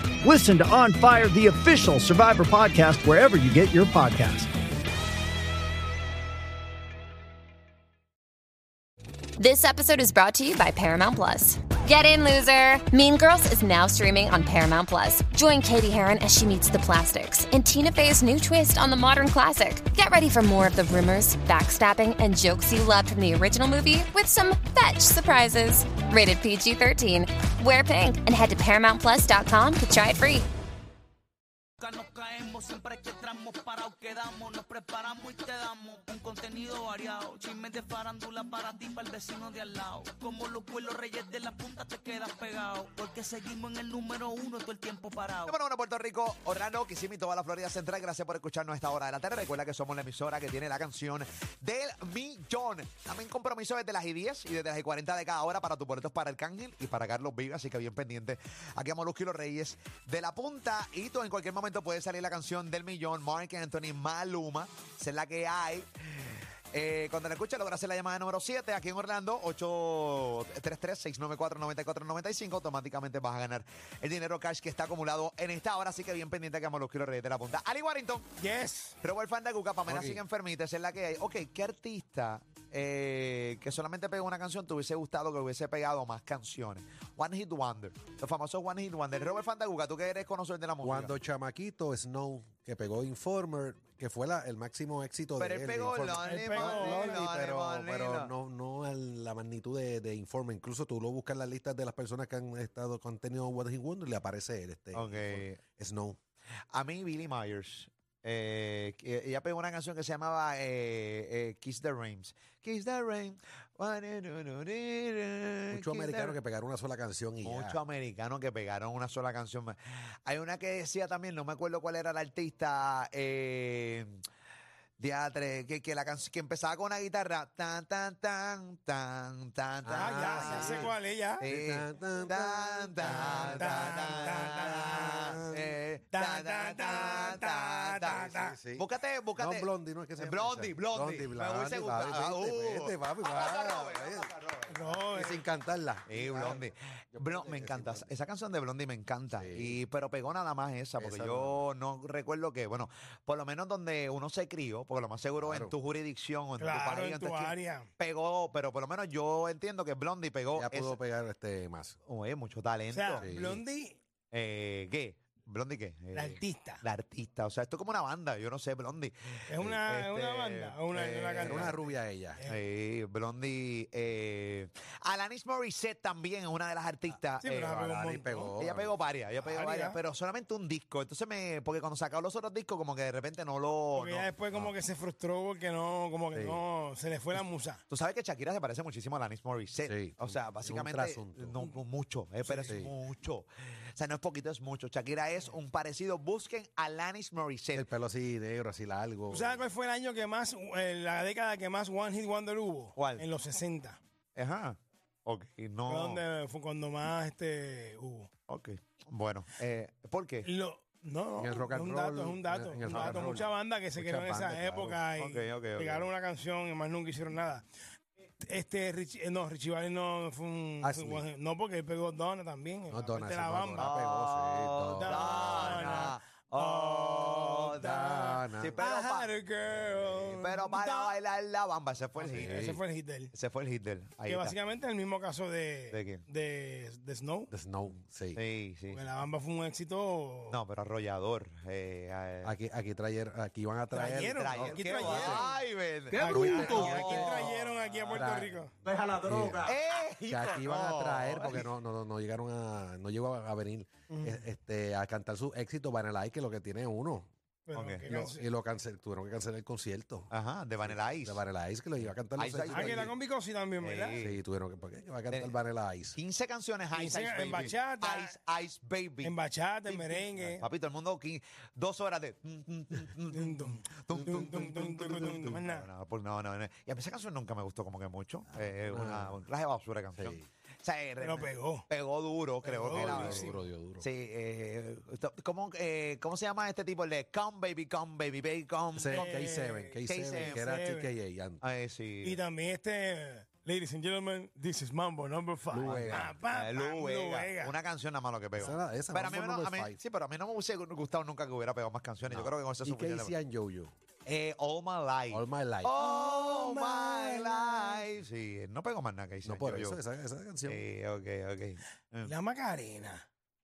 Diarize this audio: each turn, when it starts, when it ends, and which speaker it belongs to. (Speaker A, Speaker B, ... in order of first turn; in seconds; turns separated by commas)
Speaker A: 0.2-4.5, Speaker B: 9.4-30.4, Speaker C: 31.8-45.5, Speaker D: 45.5-78.3, Speaker E: 78.4-79.0, Speaker D: 79.0-91.1, Speaker F: 79.8-80.2, Speaker F: 90.8-106.2, Speaker D: 95.4-98.3, Speaker E: 96.2-97.2, Speaker D: 104.9-105.6, Speaker D: 106.7-116.4, Speaker F: 115.7-117.8, Speaker D: 117.4-124.2, Speaker D: 125.0-145.1, Speaker E: 129.9-131.5, Speaker F: 129.9-130.9, Speaker F: 131.4-134.2, Speaker E: 133.0-135.4, Speaker F: 135.3-135.7, Speaker E: 136.1-138.6, Speaker F: 138.3-138.8, Speaker F: 139.4-144.3, Speaker E: 144.7-145.4, Speaker F: 145.1-148.1, Speaker D: 146.1-161.0, Speaker F: 149.3-149.8, Speaker F: 151.0-151.7, Speaker F: 155.4-155.8, Speaker E: 156.6-157.9, Speaker F: 160.5-162.0, Speaker D: 162.1-163.2, Speaker E: 162.9-164.0, Speaker F: 163.2-163.6, Speaker D: 164.3-171.8, Speaker E: 166.1-166.8, Speaker E: 169.5-172.6, Speaker F: 171.4-172.4, Speaker D: 172.4-178.0, Speaker E: 177.4-178.6, Speaker F: 177.8-178.9, Speaker D: 178.6-184.3, Speaker E: 179.4-180.0, Speaker E: 183.9-187.8, Speaker F: 186.3-186.6, Speaker D: 187.9-197.9, Speaker F: 189.8-191.6, Speaker E: 192.4-192.8, Speaker F: 192.7-192.9, Speaker F: 197.7-199.6, Speaker E: 199.3-204.0, Speaker D: 202.9-203.2, Speaker D: 204.4-206.2, Speaker E: 205.9-208.3, Speaker D: 208.5-210.5, Speaker E: 210.4-217.7, Speaker F: 211.4-214.8, Speaker D: 212.9-213.2, Speaker D: 214.7-216.1, Speaker E: 218.4-223.9, Speaker F: 220.8-221.2, Speaker F: 222.9-226.1, Speaker D: 223.8-228.0, Speaker E: 225.0-231.2, Speaker F: 227.8-228.8, Speaker D: 228.6-229.3, Speaker D: 230.2-232.6, Speaker E: 232.2-233.3, Speaker F: 232.3-232.8, Speaker D: 233.3-234.5, Speaker E: 234.2-237.5, Speaker D: 235.9-236.2, Speaker F: 237.5-238.4, Speaker D: 238.3-239.1, Speaker E: 238.9-240.6, Speaker D: 240.5-242.5, Speaker F: 242.4-245.5, Speaker E: 243.9-245.5, Speaker D: 244.4-247.5, Speaker F: 246.1-247.6, Speaker E: 246.2-248.7, Speaker F: 248.1-257.3, Speaker D: 249.6-251.7, Speaker E: 254.1-254.4, Speaker E: 257.7-258.5, Speaker D: 257.8-258.1, Speaker F: 258.1-263.1, Speaker D: 260.3-261.4, Speaker D: 262.0-263.1, Speaker E: 262.7-264.2, Speaker D: 263.8-264.4, Speaker F: 264.2-266.2, Speaker D: 265.3-265.6, Speaker D: 266.1-283.5, Speaker E: 266.9-268.4, Speaker E: 269.2-270.7, Speaker E: 273.3-275.9, Speaker F: 278.5-279.4, Speaker F: 280.1-280.5, Speaker E: 281.2-281.9, Speaker E: 282.6-283.6, Speaker F: 282.9-284.1, Speaker D: 284.0-289.3, Speaker F: 288.9-291.6, Speaker E: 289.1-291.1, Speaker D: 290.1-290.6, Speaker D: 291.6-292.4, Speaker E: 292.2-297.8, Speaker F: 295.7-296.4, Speaker D: 295.9-303.4, Speaker F: 298.6-300.0, Speaker F: 302.3-303.9, Speaker D: 304.2-310.0, Speaker F: 305.3-306.1, Speaker E: 306.3-307.5, Speaker F: 309.4-310.9, Speaker D: 310.7-312.3, Speaker E: 312.2-313.2